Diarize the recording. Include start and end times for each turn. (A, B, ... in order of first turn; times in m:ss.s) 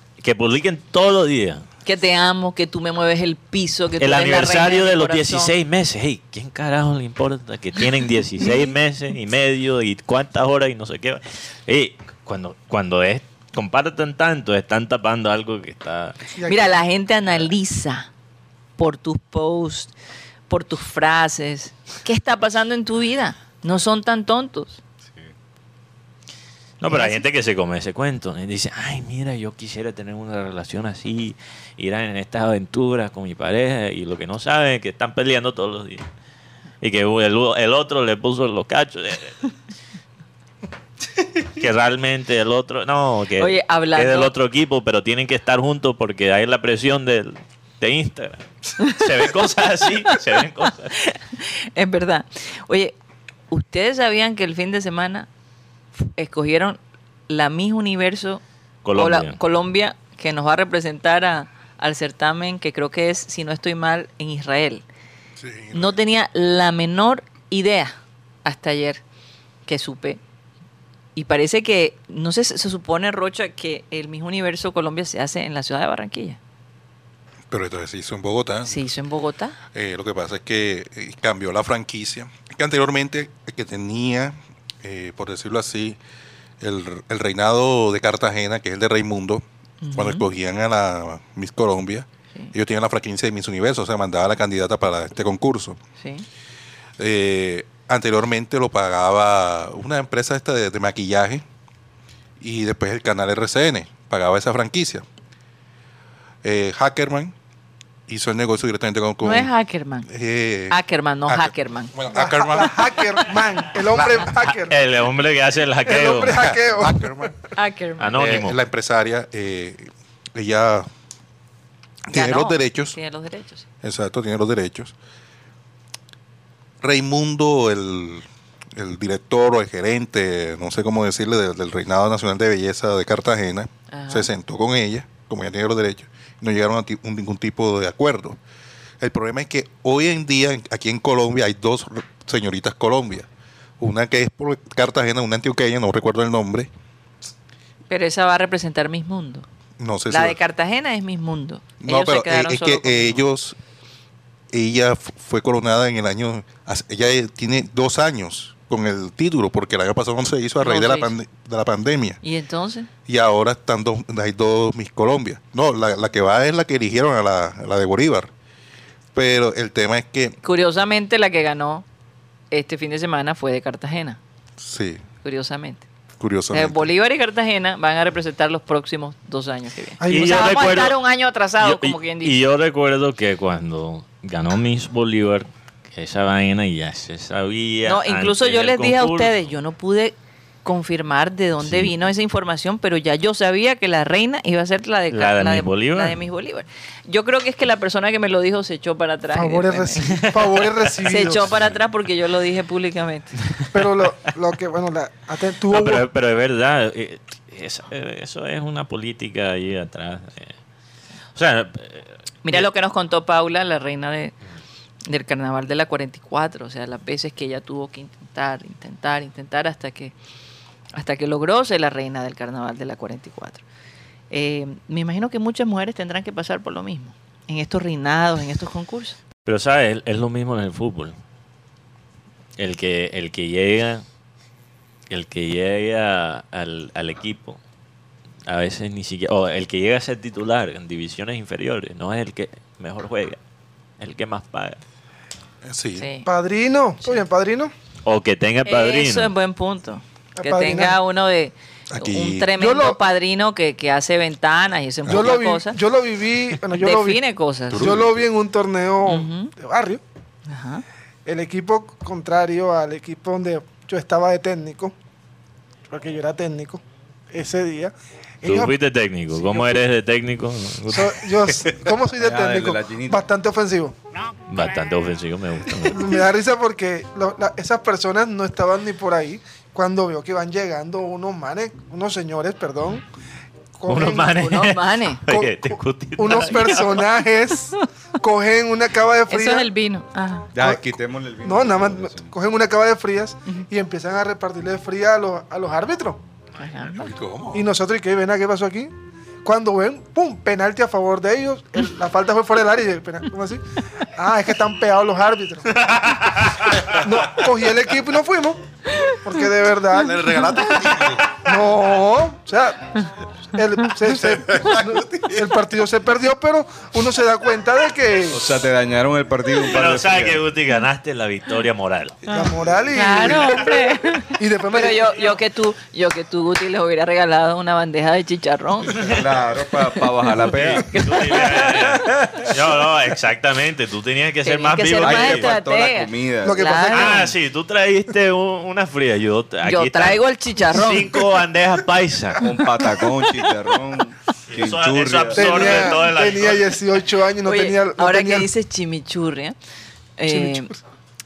0:00.2-0:01.6 A
0:01.8-0:05.5 B
0:04.0-0:16.2 A
0:16.3-0:16.8 C
0:16.4-0:18.1 B
0:18.8-0:19.9 B
0:20.5-0:24.8 B
0:26.8-0:36.0 A
0:26.9-0:27.2 B
0:36.8-0:39.5 A
0:41.5-0:51.0 A
0:43.4-0:44.3 B
0:48.8-0:49.0 B
0:51.0-0:53.0 B
0:53.5-0:55.3 B
0:56.0-0:58.4 B
0:58.8-0:59.4 A
0:59.0-1:04.8 B
1:05.4-1:06.0 D
1:05.7-1:09.0 B
1:09.7-1:10.2 B
1:11.2-1:16.4 B
1:17.5-1:18.8 D
1:18.6-1:19.6 B
1:19.7-1:26.0 D
1:26.6-1:29.4 D
1:29.8-1:30.2 B
1:29.9-1:35.8 D
1:36.0-1:36.3 B
1:37.0-1:41.4 D
1:42.4-1:45.0 D
1:46.4-1:47.3 D
1:48.1-1:49.5 D
1:49.2-1:50.1 B
1:50.1-1:54.3 D
1:50.7-1:51.9 B
1:52.1-1:54.8 C
1:54.7-1:56.5 A
1:55.9-1:57.3 C
1:56.3-1:57.3 D
1:57.6-1:58.1 B
1:58.0-1:58.6 A
1:58.1-2:00.9 D
2:02.1-2:03.0 D
2:02.1-2:03.6 B
2:03.8-2:05.0 D
2:06.8-2:08.2 D
2:08.8-2:18.4 D
2:13.9-2:14.3 B
2:19.0-2:23.3 D
2:23.8-2:26.7 D
2:27.9-2:29.5 B
2:29.8-2:30.4 D
2:30.1-2:33.2 B
2:31.8-2:33.6 D
2:34.5-2:42.2 D
2:40.6-2:41.1 B
2:42.2-2:42.9 B
2:43.1-2:48.3 D
2:49.1-2:50.4 D
2:50.4-2:51.9 B
2:52.5-2:54.2 B
2:54.6-2:55.0 D
2:55.2-2:55.8 B
2:56.2-2:56.9 D
2:56.5-3:02.4 B
3:00.0-3:00.9 C
3:00.1-3:01.0 A
3:01.6-3:09.4 A
3:07.8-3:20.1 B
3:11.6-3:11.9 A
3:15.1-3:16.2 A
3:19.3-3:21.5 C
3:20.0-3:20.9 A
3:21.0-3:23.3 B
3:21.4-3:21.7 A
3:23.7-3:26.1 C
3:25.7-3:30.6 A
3:31.4-3:32.7 A
3:32.4-3:34.3 B
3:35.1-3:40.1 B
3:40.9-3:43.6 B
3:44.3-3:49.2 B
3:49.4-3:51.2 A
3:52.6-3:54.0 A
3:55.1-3:57.6 A
3:58.5-4:03.4 A
4:04.0-4:04.8 A
4:05.6-4:06.1 D
4:06.0-4:06.3 B
4:06.2-4:07.7 C
4:08.0-4:09.3 A
4:08.7-4:15.8 B
4:10.4-4:11.0 C
4:11.9-4:12.5 D
4:12.6-4:13.0 C
4:15.1-4:17.2 C
4:16.8-4:17.9 B
4:17.7-4:18.2 D
4:17.8-4:20.0 C
4:19.1-4:19.5 B
4:20.5-4:20.8 B
4:21.3-4:25.0 C
4:25.9-4:28.8 C
4:28.4-4:31.5 A
4:29.4-4:29.8 C
4:30.9-4:34.0 C
4:32.2-4:33.2 E
4:34.5-4:36.3 A
4:35.9-4:43.0 C
4:43.8-4:44.6 C
4:43.9-4:47.1 A
4:44.4-4:45.2 B
4:45.3-4:49.7 C
4:46.3-4:46.7 B
4:49.3-4:50.5 B
4:50.5-4:52.3 E
4:50.6-4:50.9 C
4:51.4-4:56.2 C
4:56.6-4:57.1 B
4:57.0-4:57.6 D
4:57.5-4:58.9 C
4:59.4-5:05.8 C
5:05.9-5:06.7 A
5:06.9-5:08.6 C
5:08.9-5:09.2 B
5:09.2-5:10.4 C
5:10.0-5:11.4 D
5:10.4-5:10.9 B
5:11.4-5:12.9 C
5:13.6-5:18.4 C
5:14.2-5:15.4 D
5:18.3-5:20.4 E
5:19.7-5:22.2 A
5:22.3-5:29.0 B
5:22.3-5:25.1 C
5:28.9-5:30.9 E
5:30.4-5:35.5 A
5:30.9-5:31.8 B
5:34.4-5:37.3 B
5:35.0-5:36.7 E
5:36.4-5:37.3 C
5:36.9-5:42.6 A
5:39.6-5:41.2 B
5:42.4-5:46.0 E
5:44.5-5:46.8 A
5:45.4-5:48.5 C
5:47.4-5:49.6 B
5:50.2-5:50.7 B
5:50.3-5:50.8 C